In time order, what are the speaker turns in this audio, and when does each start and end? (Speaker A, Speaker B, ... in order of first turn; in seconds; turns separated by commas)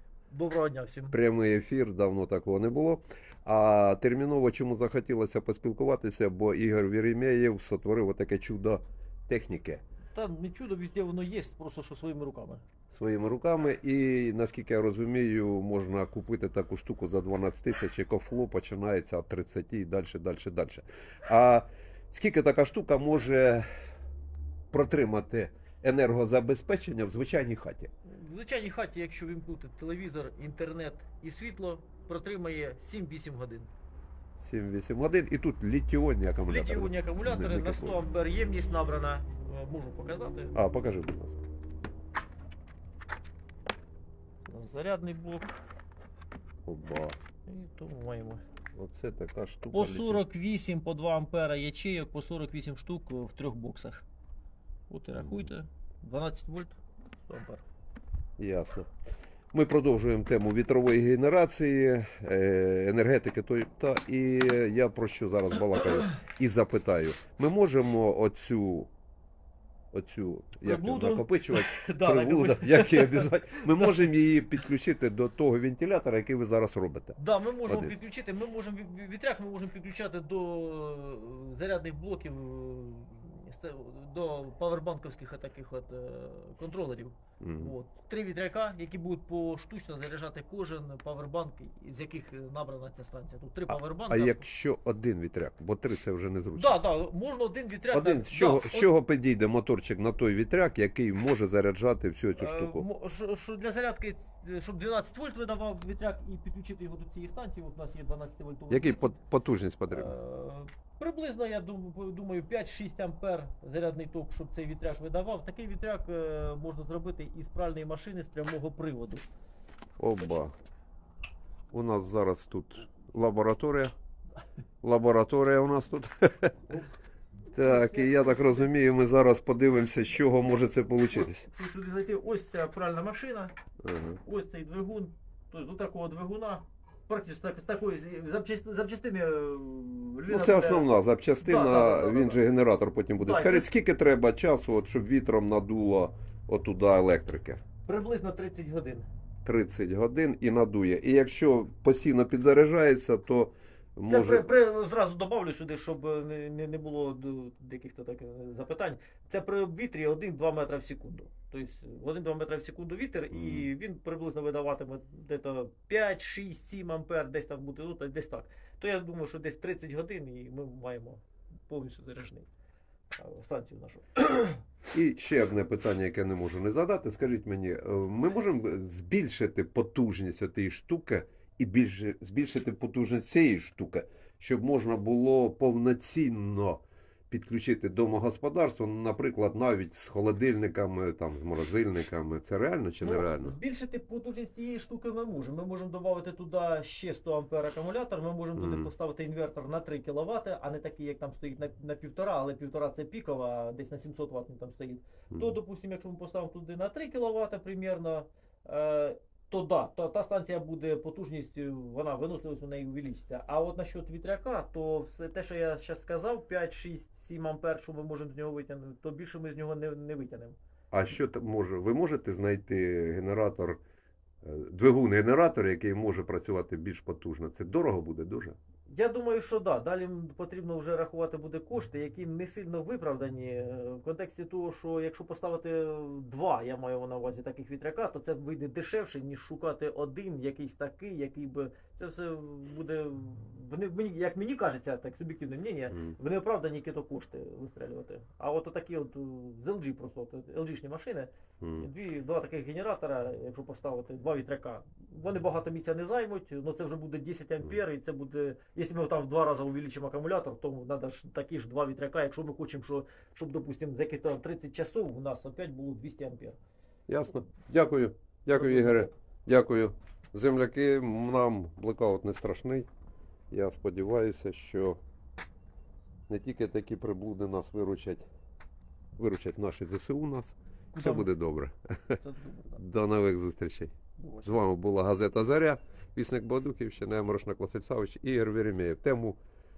Speaker A: 0.3-1.2, Speaker B: 1.1-9.8, Speaker A: 10.1-12.6, Speaker B: 12.9-23.7, Speaker B: 24.7-27.9, Speaker A: 28.1-33.7, Speaker B: 34.4-38.0, Speaker A: 36.5-40.5, Speaker B: 40.5-41.4, Speaker A: 44.5-45.5, Speaker B: 46.7-47.2, Speaker A: 47.5-48.4, Speaker B: 48.8-50.2, Speaker A: 49.7-54.0, Speaker A: 54.9-57.6, Speaker B: 55.1-55.5, Speaker B: 58.4-58.9, Speaker B: 59.5-68.9, Speaker B: 69.9-77.9, Speaker A: 70.6-74.1, Speaker A: 77.2-94.5, Speaker B: 87.4-87.7, Speaker B: 93.7-96.8, Speaker A: 96.6-98.9, Speaker B: 97.9-102.8, Speaker A: 102.4-109.2, Speaker B: 108.7-110.1, Speaker A: 109.9-119.2, Speaker B: 120.0-120.5, Speaker B: 121.7-123.9, Speaker B: 124.8-126.8, Speaker B: 127.5-131.5, Speaker A: 127.6-128.7, Speaker A: 131.1-133.5, Speaker B: 133.8-134.2, Speaker A: 134.2-140.9, Speaker B: 140.3-147.6, Speaker A: 141.4-142.4, Speaker A: 143.2-143.7, Speaker A: 147.9-149.1, Speaker B: 149.4-154.5, Speaker A: 154.1-172.5, Speaker B: 163.3-163.7, Speaker A: 173.2-174.6, Speaker B: 174.9-193.6, Speaker A: 193.0-220.6, Speaker B: 198.6-198.9, Speaker B: 220.9-223.8, Speaker B: 224.4-228.6, Speaker A: 228.9-266.6, Speaker B: 245.9-246.2, Speaker B: 251.6-251.9, Speaker B: 267.1-272.9, Speaker A: 268.6-269.1, Speaker B: 273.5-275.0, Speaker B: 276.3-278.2, Speaker B: 279.2-282.2, Speaker A: 280.9-281.3, Speaker A: 282.1-282.8, Speaker B: 282.8-289.4, Speaker A: 284.2-284.6